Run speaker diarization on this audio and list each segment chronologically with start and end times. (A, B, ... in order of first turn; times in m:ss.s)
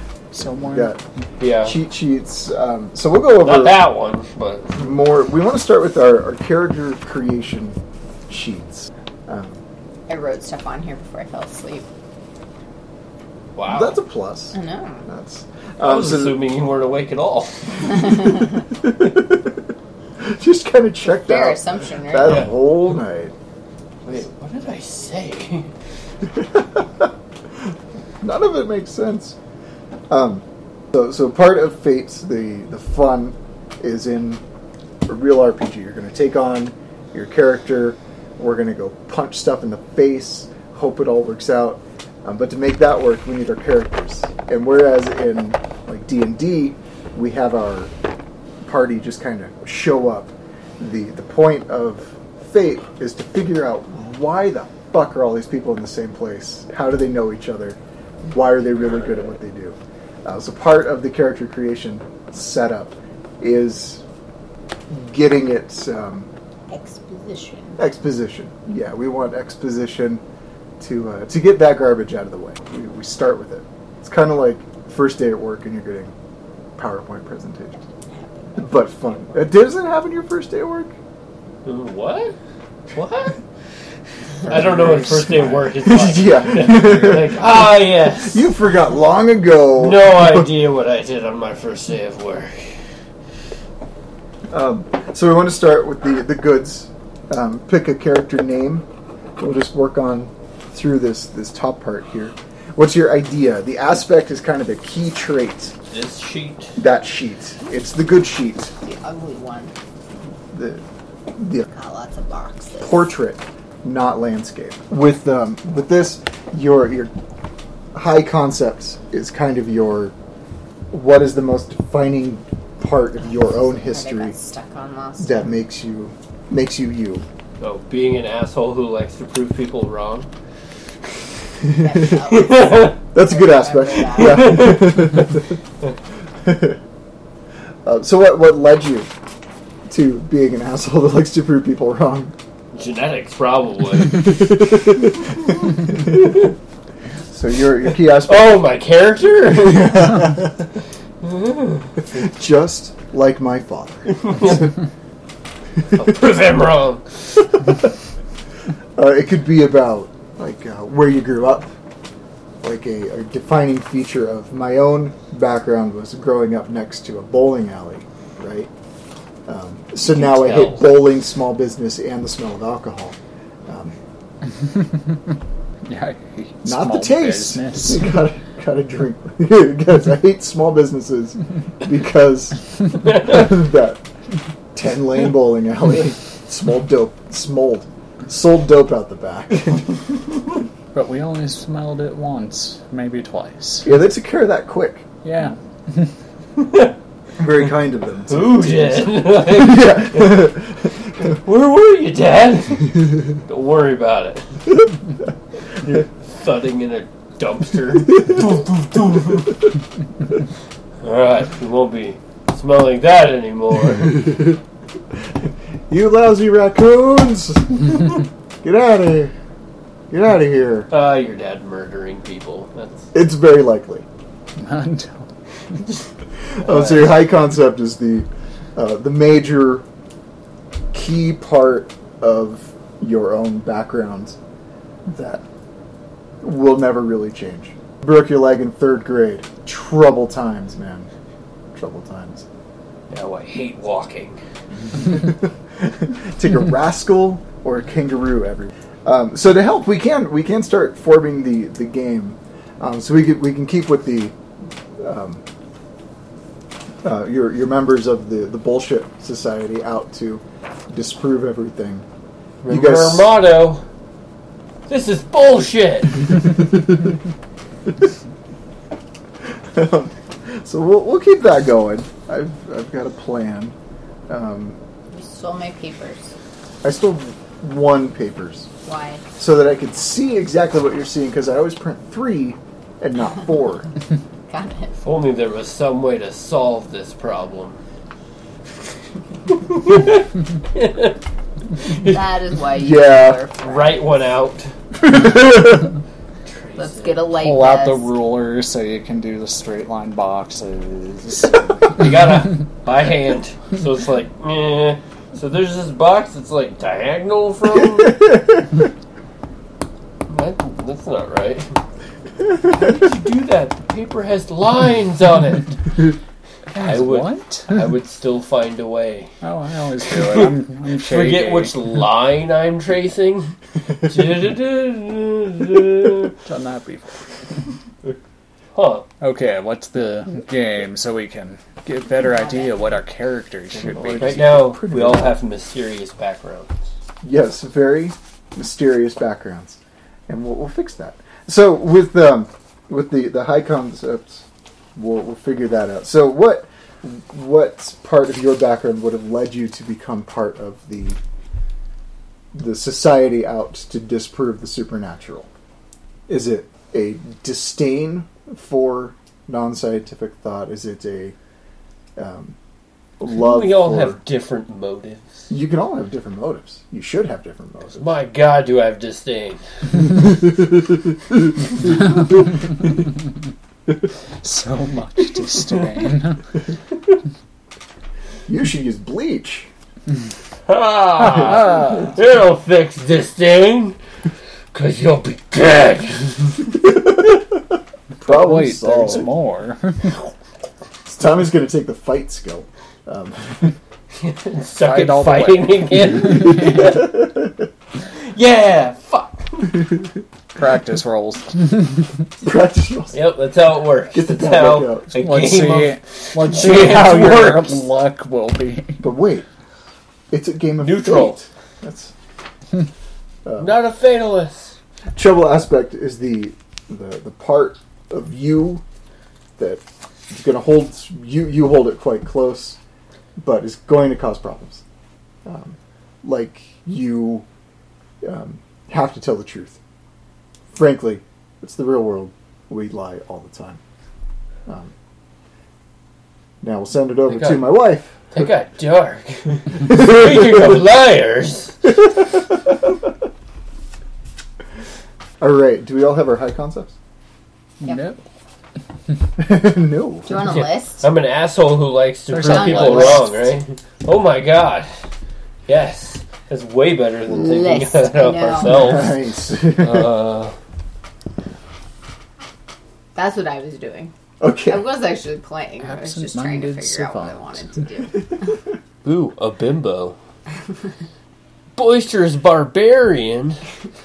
0:00.3-0:00.9 A
0:00.6-0:01.0 B
0:01.4-0:01.8 C
0:01.6-0:03.8 B
0:03.3-0:04.9 C
0:04.8-0:09.6 B
0:10.1-0:11.9 D
0:13.6-0:14.0 C
0:13.7-0:14.5 B
0:14.5-0:15.1 D
0:15.1-0:16.4 B
0:15.8-0:18.4 C
0:18.8-0:19.6 B
0:20.2-0:23.3 B
0:21.0-0:22.5 D
0:22.2-0:22.6 C
0:24.0-0:25.7 C
0:26.3-0:27.1 B
0:28.2-0:29.4 B
0:30.1-0:34.4 B
0:35.1-0:47.9 B
0:48.6-1:04.0 B
1:04.9-1:06.3 B
1:06.7-1:07.8 D
1:07.8-1:10.2 B
1:10.8-1:16.1 B
1:16.8-1:17.8 B
1:18.1-1:18.7 D
1:18.6-1:20.9 B
1:21.6-1:22.3 C
1:22.9-1:23.4 C
1:24.4-1:28.5 C
1:24.4-1:30.5 B
1:29.7-1:32.7 C
1:34.5-1:38.8 B
1:39.4-1:45.7 B
1:45.9-1:46.7 C
1:46.8-1:48.7 B
1:48.8-1:49.7 D
1:50.5-1:50.8 B
1:51.4-1:51.7 B
1:51.7-1:53.1 D
1:52.8-1:57.1 B
1:57.9-2:00.1 B
2:00.9-2:04.3 B
2:03.3-2:05.5 D
2:05.2-2:07.2 B
2:07.6-2:10.3 C
2:11.7-2:14.6 D
2:12.2-2:13.0 C
2:13.1-2:15.5 B
2:14.1-2:15.3 C
2:16.4-2:16.8 B
2:17.8-2:19.1 B
2:19.9-2:22.3 B
2:22.7-2:24.9 C
2:24.3-2:25.4 B
2:26.0-2:26.5 C
2:27.3-2:28.6 B
2:28.0-2:30.4 C
2:29.6-2:30.6 B
2:31.2-2:32.1 C
2:32.1-2:34.7 B
2:34.2-2:34.7 C
2:35.9-2:37.2 C
2:39.0-2:41.7 B
2:42.6-2:48.7 B
2:49.5-2:53.9 B
2:50.0-2:51.0 C
2:54.6-2:55.2 A
2:55.8-2:58.2 A
2:56.6-3:04.0 B
3:04.7-3:09.8 B
3:10.9-3:13.9 A
3:13.8-3:15.0 B
3:15.2-3:16.1 A
3:16.6-3:16.9 C
3:17.4-3:20.9 B
3:18.3-3:20.6 C
3:21.2-3:24.6 C
3:25.8-3:29.6 C
3:31.0-3:34.5 C
3:35.1-3:39.3 B
3:40.1-3:40.9 B
3:40.9-3:43.1 C
3:43.1-3:44.0 B
3:44.6-3:45.3 A
3:46.5-3:49.8 B
3:46.6-3:47.2 C
3:50.9-3:54.4 B
3:55.1-3:55.4 B
3:56.4-4:01.1 B
4:01.7-4:02.4 B
4:03.1-4:04.4 C
4:04.9-4:14.3 B
4:15.0-4:15.4 B
4:17.0-4:22.0 B
4:22.6-4:23.8 C
4:22.7-4:23.3 B
4:24.9-4:26.6 C
4:29.4-4:33.7 B
4:34.3-4:34.8 B
4:35.1-4:36.3 D
4:36.8-4:38.7 B
4:38.8-4:39.2 D
4:39.4-4:43.9 B
4:44.5-4:45.0 D
4:45.0-4:47.8 C
4:49.5-4:51.2 C
4:51.9-4:54.2 D
4:51.9-4:52.2 C
4:52.7-4:53.4 B
4:53.6-4:54.7 C
4:56.4-4:57.3 C
4:56.8-4:58.1 D
4:57.3-5:02.0 A
5:01.9-5:08.3 C
5:10.3-5:11.8 C
5:12.5-5:16.1 C
5:16.7-5:17.8 A
5:16.7-5:19.3 C
5:19.4-5:21.7 A
5:20.0-5:26.4 C
5:26.4-5:27.2 A
5:28.7-5:29.1 C
5:29.2-5:34.5 A
5:32.2-5:32.9 D
5:33.8-5:35.4 B
5:34.2-5:36.8 C
5:37.2-5:44.4 B
5:45.0-5:51.2 B
5:52.5-5:55.5 B
5:56.3-6:01.3 B
6:02.2-6:02.6 B
6:03.2-6:04.2 B
6:03.3-6:05.4 C
6:05.5-6:08.1 B
6:07.9-6:10.1 C
6:14.4-6:16.4 A
6:18.5-6:19.7 B
6:20.7-6:24.0 C
6:21.5-6:22.1 A
6:24.7-6:26.8 C
6:28.2-6:30.2 A
6:28.2-6:29.3 B
6:31.0-6:33.8 B
6:34.1-6:37.4 C
6:34.8-6:36.6 A
6:38.0-6:40.0 C
6:40.6-6:42.2 A
6:42.4-6:43.2 B
6:43.1-6:47.9 C
6:44.1-6:45.1 B
6:45.1-6:49.0 A
6:49.0-6:49.5 B
6:50.3-6:52.1 B
6:50.8-6:51.4 C
6:53.4-6:53.8 B
6:53.6-6:54.8 C
6:55.1-6:58.8 B
6:59.6-7:02.8 B
7:03.4-7:04.8 B
7:05.4-7:07.4 B
7:08.2-7:09.8 B
7:10.7-7:13.8 B
7:14.6-7:14.9 B
7:16.6-7:18.3 B
7:17.3-7:17.8 C
7:18.3-7:21.9 C
7:25.4-7:26.9 B
7:27.8-7:28.2 A
7:29.4-7:30.4 B
7:30.2-7:31.1 D
7:30.6-7:34.9 C
7:32.3-7:33.3 A
7:32.5-7:33.3 D
7:35.7-7:40.6 C
7:37.3-7:39.0 D
7:38.6-7:40.2 B
7:43.1-7:44.1 D
7:44.4-7:44.9 B
7:44.6-7:48.4 D
7:45.8-7:47.6 A
7:49.0-7:50.2 C
7:51.8-7:53.6 C